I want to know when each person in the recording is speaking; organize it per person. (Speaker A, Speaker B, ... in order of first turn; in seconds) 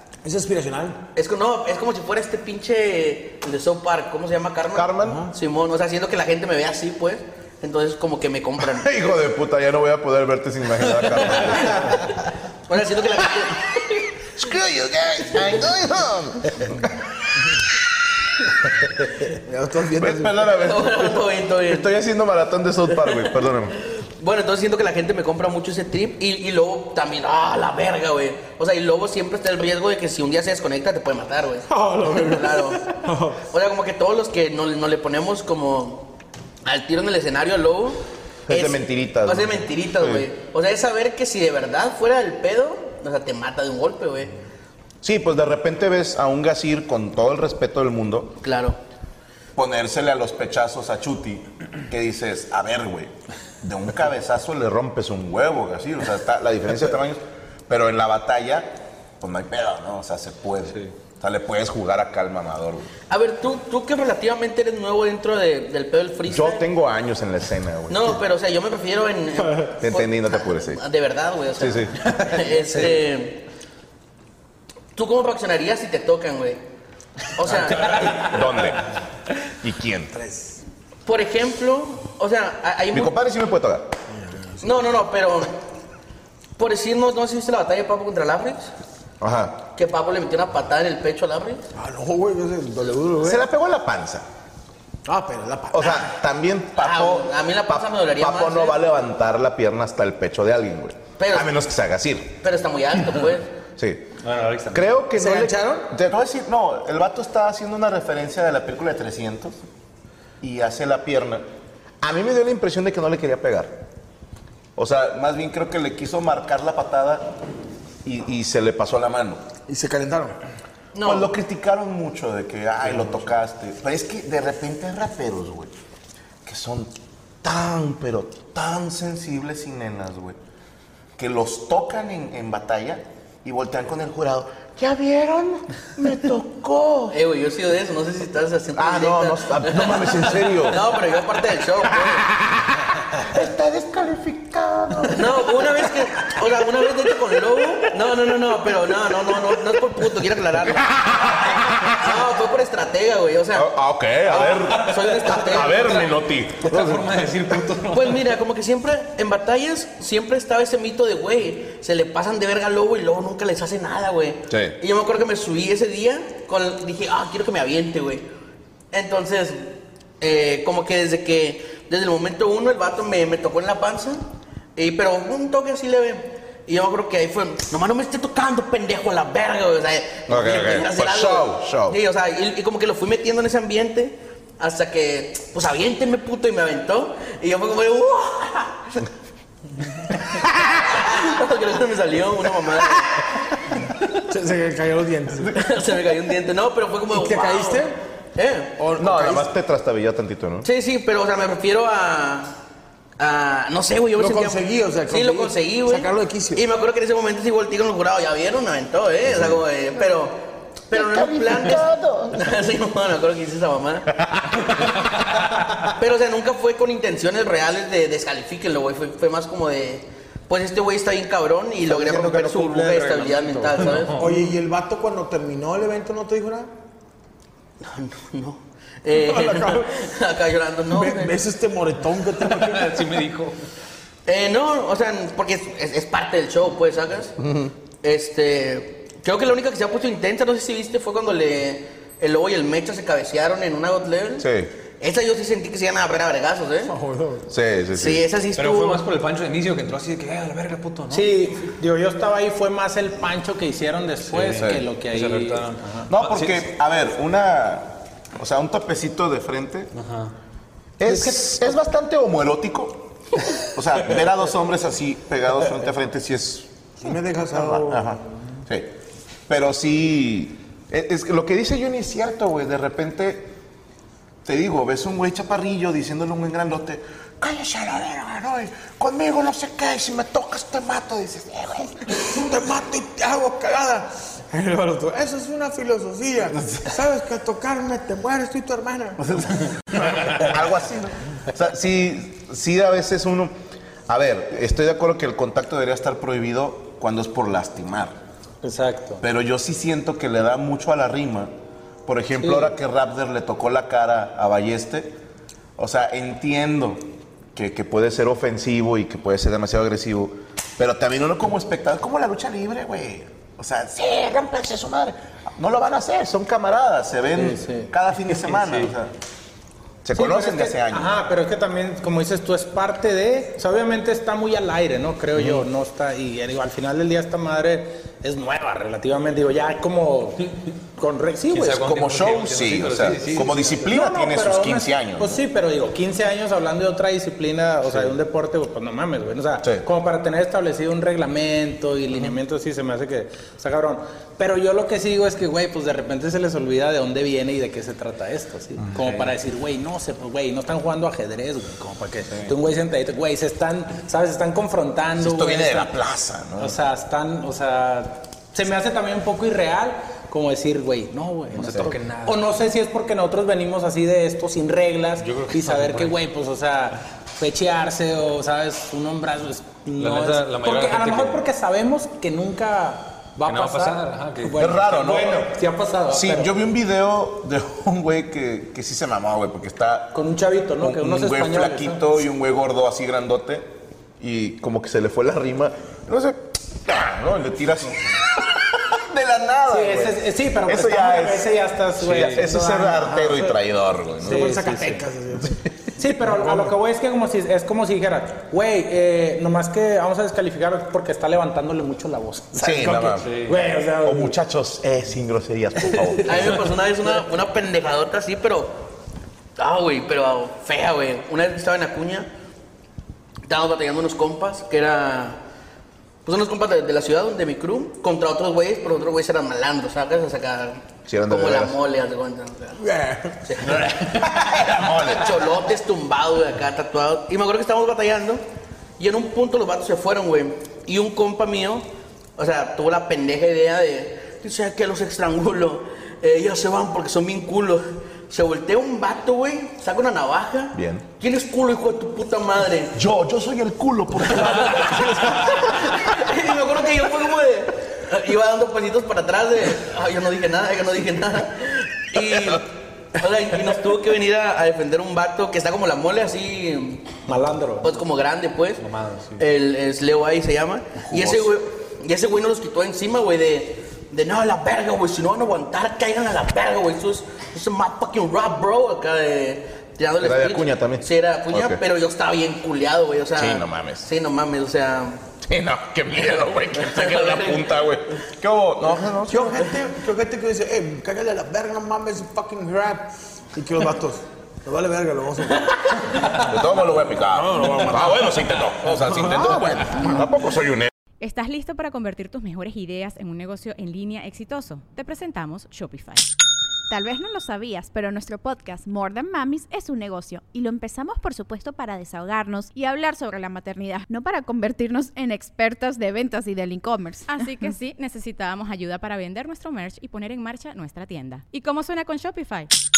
Speaker A: 0.2-1.0, 5.0-5.3, 19.4-20.6, 31.7-33.4, 80.1-80.6, 84.1-85.0, 91.8-93.4, 95.1-96.0, 105.2-105.9, 119.7-120.4, 194.2-195.7, 197.1-198.0, 198.8-199.5, 204.2-206.7, 224.2-226.7, 229.1-230.1, 230.9-233.1, 246.9-247.5, 267.0-268.2, 282.2-289.5, 394.2-396.8, 422.8-423.4, 479.3-486.3, 487.2-490.0
Speaker B: 1.1-9.0, 11.2-14.2, 20.6-21.9, 23.8-32.9, 33.5-36.1, 36.6-44.4, 48.4-48.8, 63.1-66.6, 67.9-73.4, 75.0-76.6, 77.3-78.3, 81.1-83.1, 84.6-85.5, 86.6-88.7, 89.8-91.6, 96.8-98.8, 101.2-101.5, 102.4-103.5, 120.9-121.3, 137.1-142.3, 145.1-151.0, 151.9-153.7, 154.3-156.2, 157.9-168.2, 168.9-174.2, 174.8-189.0, 190.8-193.3, 195.5-198.8, 200.6-202.6, 203.2-214.1, 215.9-224.2, 227.8-231.3, 234.3-237.3, 238.0-244.5, 245.0-246.9, 247.9-249.0, 406.2-408.8, 409.6-412.3, 413.5-415.4, 416.2-422.8, 423.5-423.9, 425.0-428.4, 429.0-431.9, 432.4-443.0, 444.4-457.1, 457.8-458.8, 459.4-475.2, 476.8-477.6
Speaker C: 4.7-5.2, 8.6-12.1, 14.4-17.0, 20.0-23.8, 38.5-40.3, 45.0-48.4, 49.6-62.9, 66.3-68.2, 69.8-70.8, 71.6-72.0, 77.9-78.9, 79.6-80.2, 82.9-83.9, 89.2-89.7, 93.2-94.3, 95.7-102.4, 103.8-104.0, 104.7-109.6, 110.4-111.5, 112.0-113.8, 114.8-117.4, 118.0-119.4, 121.0-125.7, 126.5-126.9, 127.4-130.4, 131.2-137.2, 138.8-140.9, 142.0-145.6, 150.7-152.1, 153.5-157.2, 164.5-164.8, 180.3-182.0, 199.0-200.7, 209.3-209.6, 210.9-212.7, 237.4-237.7, 244.4-244.7, 247.5-248.2, 254.5-254.8, 256.1-259.9, 261.0-268.9, 269.5-273.5, 274.4-282.2, 289.2-293.5, 294.1-298.1, 299.2-301.5, 302.1-305.1, 305.8-319.1, 320.0-321.2, 331.9-335.4, 355.2-356.8, 374.6-375.5, 376.1-380.2, 380.8-394.6, 402.6-403.4, 404.0-406.6, 421.1-421.8, 423.6-425.4, 440.7-441.1, 442.9-446.3, 461.1-461.5, 470.2-471.8, 473.4-474.1, 475.4-479.6, 486.4-490.9
Speaker D: 77.9-78.4, 104.2-105.0, 154.8-155.9, 156.6-158.3, 223.0-224.3, 232.4-233.6, 248.6-251.3, 254.3-256.7, 259.9-260.3, 331.5-333.9, 361.5-362.6, 365.2-366.2, 370.0-371.4, 373.4-374.7, 403.1-403.6, 458.8-459.4
Speaker E: 222.1-223.8, 251.1-256.1, 261.1-261.4, 298.6-299.2, 302.4-302.7, 317.4-317.9, 320.1-332.1, 333.8-355.9, 356.6-376.5, 380.1-382.1, 389.7-393.6, 394.2-395.1, 396.0-404.4, 457.3-458.0
Speaker F: 491.2-496.3, 507.3-512.7
Speaker G: 496.9-507.7